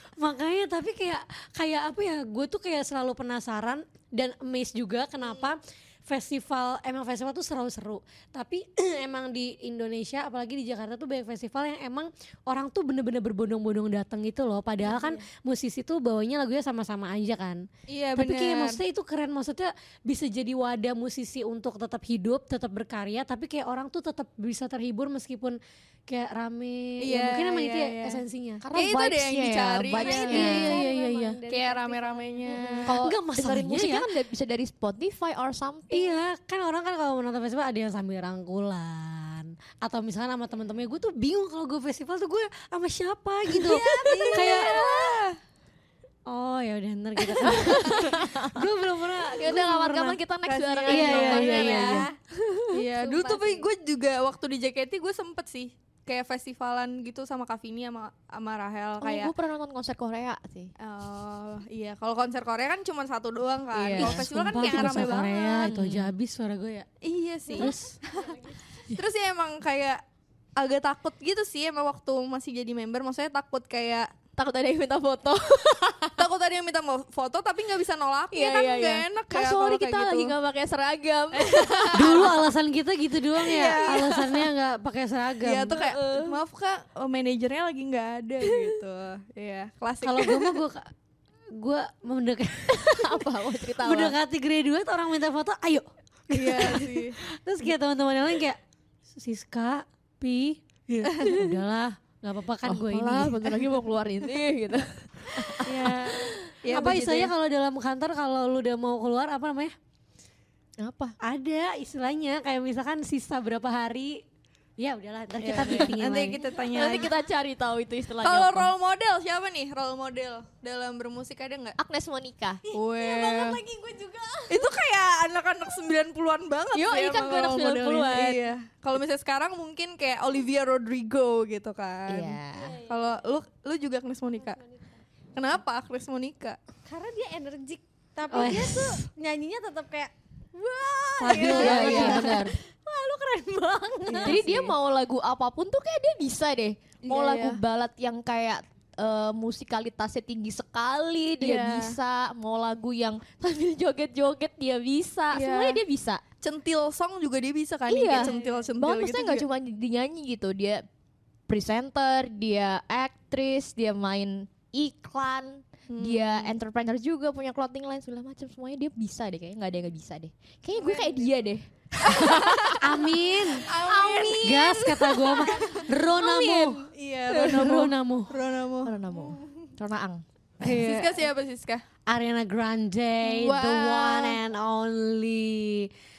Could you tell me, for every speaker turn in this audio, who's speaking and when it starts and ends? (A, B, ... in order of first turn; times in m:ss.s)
0:00.2-0:17.6 A
0:14.9-0:15.1 B
0:17.9-0:18.8 C
0:18.2-0:28.6 A
0:27.0-0:28.2 C
0:28.6-0:30.7 D
0:28.7-0:30.8 C
0:29.9-0:32.5 B
0:30.3-0:31.4 A
0:31.5-0:33.0 C
0:32.5-0:36.2 D
0:32.9-0:34.1 A
0:35.9-0:44.8 A
0:43.6-0:45.4 C
0:43.7-0:44.9 D
0:46.3-0:50.2 A
0:47.4-0:48.7 D
0:49.3-0:52.7 D
0:50.5-0:52.1 C
0:50.9-0:52.1 A
0:52.7-0:59.3 C
0:53.0-0:53.7 B
0:59.0-1:00.7 D
1:00.8-1:05.8 C
1:03.8-1:06.1 D
1:04.0-1:06.9 A
1:07.0-1:08.3 C
1:07.6-1:08.6 B
1:07.6-1:07.9 A
1:08.9-1:10.0 C
1:10.6-1:14.1 C
1:14.4-1:16.3 D
1:16.2-1:20.3 C
1:18.3-1:22.4 D
1:21.3-1:22.4 C
1:21.9-1:25.8 A
1:23.4-1:24.3 C
1:23.6-1:24.2 D
1:25.4-1:30.6 C
1:25.7-1:26.4 D
1:28.4-1:28.7 D
1:30.0-1:30.9 A
1:31.6-1:33.2 A
1:32.7-1:34.2 D
1:33.8-1:38.6 A
1:36.3-1:37.2 C
1:39.2-1:43.6 A
1:42.6-1:46.4 D
1:45.6-1:47.3 C
1:46.7-1:49.8 A
1:50.8-1:51.2 D
1:51.2-1:54.2 A
1:54.8-1:56.4 A
1:55.4-1:57.1 C
1:55.6-1:55.9 D
1:56.7-1:58.7 D
1:58.2-2:01.8 C
2:01.8-2:02.6 D
2:02.7-2:04.7 B
2:02.7-2:03.6 C
2:04.5-2:14.6 C
2:06.7-2:08.4 D
2:12.1-2:12.8 D
2:12.5-2:13.3 B
2:14.3-2:15.0 B
2:15.4-2:16.6 C
2:16.9-2:24.6 B
2:18.3-2:19.0 A
2:21.2-2:22.5 A
2:21.3-2:22.3 C
2:21.3-2:22.5 D
2:24.1-2:24.8 C
2:24.2-2:36.2 D
2:27.0-2:27.6 C
2:31.4-2:32.0 C
2:35.3-2:35.8 C
2:36.4-2:39.5 C
2:37.9-2:40.8 D
2:38.1-2:38.7 B
2:41.5-2:53.1 D
2:45.9-2:46.6 C
2:50.8-2:51.2 C
2:52.0-2:52.8 C
2:52.8-2:53.7 A
2:53.6-2:57.8 D
2:53.6-2:55.9 C
2:54.4-2:56.8 A
2:56.9-2:59.3 C
2:57.4-2:58.3 A
2:58.8-3:00.2 D
3:00.6-3:01.3 A
3:00.6-3:01.8 C
3:02.1-3:05.9 A
3:03.2-3:04.4 D